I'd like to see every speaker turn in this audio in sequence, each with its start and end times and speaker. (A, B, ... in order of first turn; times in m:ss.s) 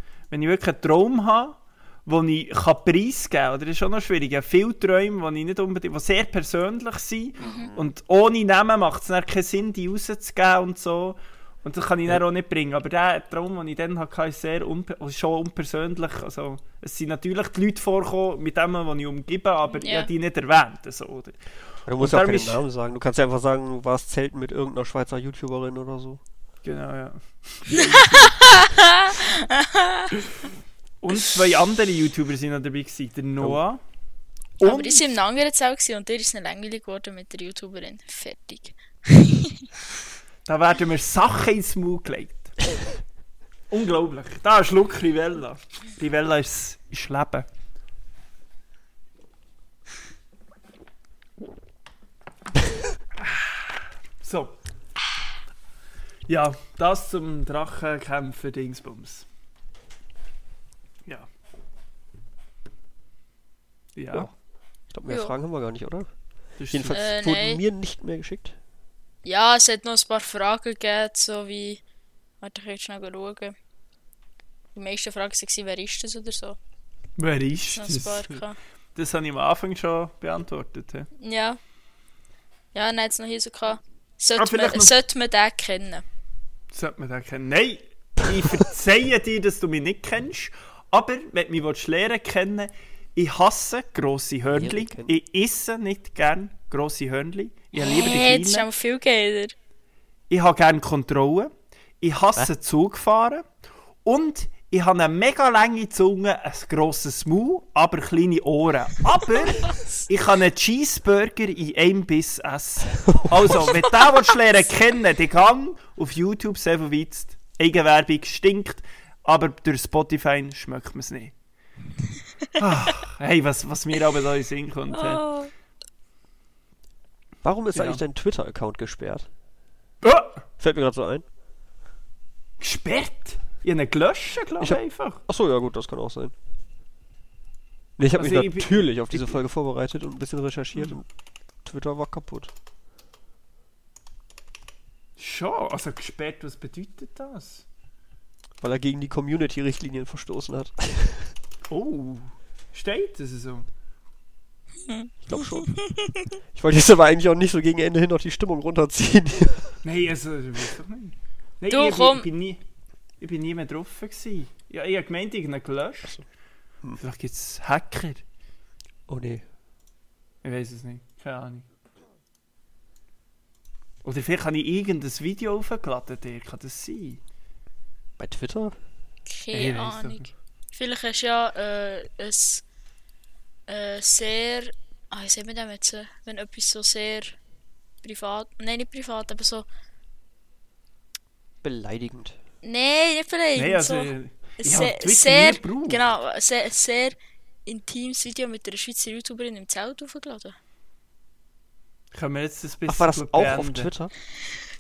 0:00.3-0:21.4 A
0:07.4-0:07.7 B
0:07.4-0:07.9 C
0:19.7-0:20.1 B
0:21.9-0:26.2 C
0:22.0-0:22.6 A
0:26.6-0:28.3 A
0:27.8-0:30.1 B
0:31.0-0:33.8 A
0:34.6-0:35.0 A
0:34.6-0:39.7 B
0:40.4-0:42.6 A
0:43.7-0:47.5 A
0:53.2-0:54.6 A
0:56.3-0:59.3 A
1:04.0-1:04.3 A
1:04.9-1:06.1 C
1:05.0-1:05.3 B
1:06.6-1:07.0 A
1:06.7-1:08.6 C
1:06.9-1:07.6 B
1:09.2-1:11.8 B
1:12.4-1:13.6 B
1:14.7-1:16.6 B
1:17.2-1:18.4 A
1:17.7-1:18.6 B
1:19.0-1:21.1 A
1:21.2-1:21.6 B
1:22.7-1:26.0 B
1:24.4-1:24.9 A
1:26.7-1:38.7 A
1:34.6-1:35.2 C
1:37.8-1:39.5 B
1:40.3-1:43.4 A
1:44.0-2:01.3 A
2:02.6-2:05.2 A
2:04.9-2:05.5 B
2:07.4-2:09.3 C
2:07.7-2:08.0 A
2:10.0-2:10.4 A
2:10.6-2:11.2 C
2:12.6-2:15.2 A
2:14.6-2:16.3 C
2:18.0-2:21.0 C
2:18.2-2:19.4 A
2:21.6-2:22.5 C
2:25.2-2:27.6 A
2:28.6-2:31.3 C
2:31.7-2:33.7 A
2:34.9-2:36.2 B
2:35.3-2:35.7 C
2:36.5-2:39.8 C
2:39.8-2:42.6 A
2:41.7-2:42.3 B
2:43.2-2:46.1 A
2:47.0-2:48.2 A
2:49.1-2:49.4 C
2:50.4-2:51.6 A
2:54.0-2:57.2 A
2:58.2-2:58.7 C
2:59.3-3:02.6 B
2:59.5-3:00.3 A
3:03.7-3:07.4 B
3:08.0-3:09.7 B
3:11.6-3:12.4 C
3:12.6-3:20.6 B
3:13.6-3:16.0 A
3:22.1-3:23.9 A
3:22.9-3:24.1 C